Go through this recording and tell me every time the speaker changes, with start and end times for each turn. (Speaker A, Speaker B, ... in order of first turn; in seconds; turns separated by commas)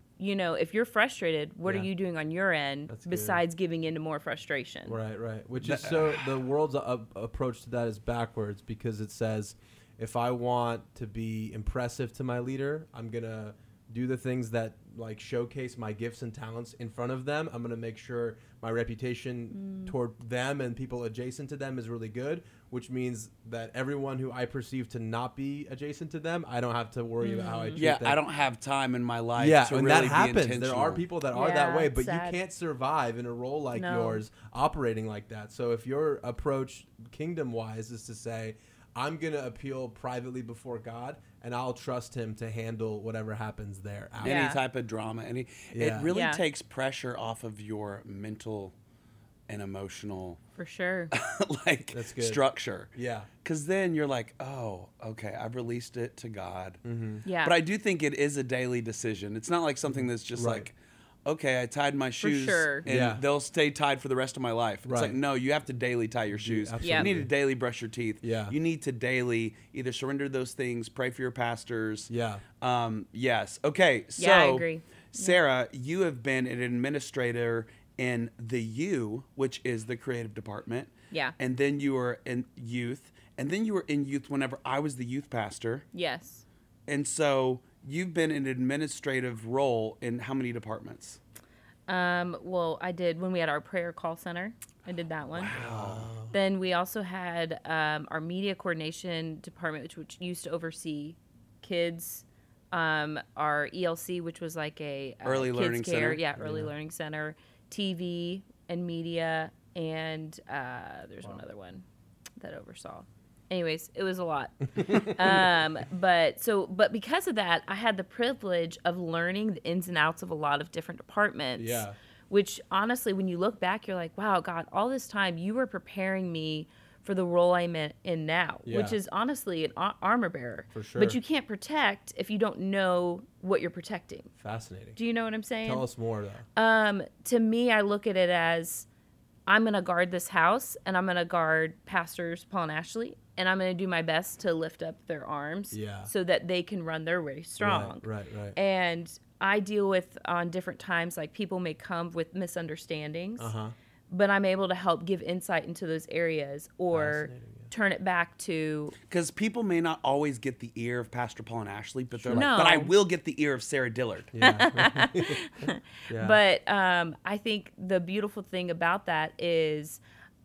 Speaker A: 0.2-5.0, Speaker B: 2.9-3.4, Speaker B: 4.8-28.2, Speaker C: 5.6-6.3, Speaker A: 19.5-19.9, Speaker A: 27.2-27.8, Speaker C: 27.8-31.0, Speaker B: 29.4-44.5, Speaker A: 31.3-32.4, Speaker A: 33.7-34.2, Speaker C: 44.2-48.7, Speaker A: 44.2-44.6, Speaker B: 45.7-46.1, Speaker A: 46.1-46.4, Speaker C: 49.5-50.4, Speaker A: 50.6-51.1, Speaker C: 51.1-52.9, Speaker B: 51.9-52.4, Speaker B: 52.9-53.3, Speaker C: 53.4-56.8, Speaker B: 56.8-57.2, Speaker A: 57.2-57.5, Speaker C: 57.4-60.7, Speaker B: 59.9-60.6, Speaker C: 61.2-72.1, Speaker A: 62.2-62.9, Speaker B: 62.9-63.2, Speaker B: 64.8-65.2, Speaker B: 66.3-67.3, Speaker A: 66.8-67.1, Speaker B: 68.2-68.5, Speaker B: 72.1-72.4, Speaker C: 72.6-85.8, Speaker A: 74.2-75.3, Speaker A: 85.9-86.4, Speaker C: 86.9-91.2, Speaker A: 91.9-95.5, Speaker C: 95.3-96.1, Speaker B: 95.5-96.3, Speaker A: 96.3-111.8, Speaker C: 105.2-106.2, Speaker B: 106.4-106.7, Speaker A: 112.4-134.3, Speaker B: 114.8-115.5, Speaker B: 121.5-122.0, Speaker B: 128.7-129.0, Speaker B: 130.7-131.2, Speaker B: 134.4-135.0, Speaker A: 134.9-135.8, Speaker B: 135.6-136.4, Speaker A: 136.6-138.8, Speaker A: 139.5-153.5, Speaker B: 145.7-146.1, Speaker B: 147.6-148.6, Speaker B: 153.4-153.7, Speaker A: 154.1-158.9, Speaker B: 156.9-157.7, Speaker C: 159.1-164.3, Speaker B: 162.1-162.5, Speaker A: 162.3-162.9, Speaker B: 164.3-166.4, Speaker A: 164.4-170.0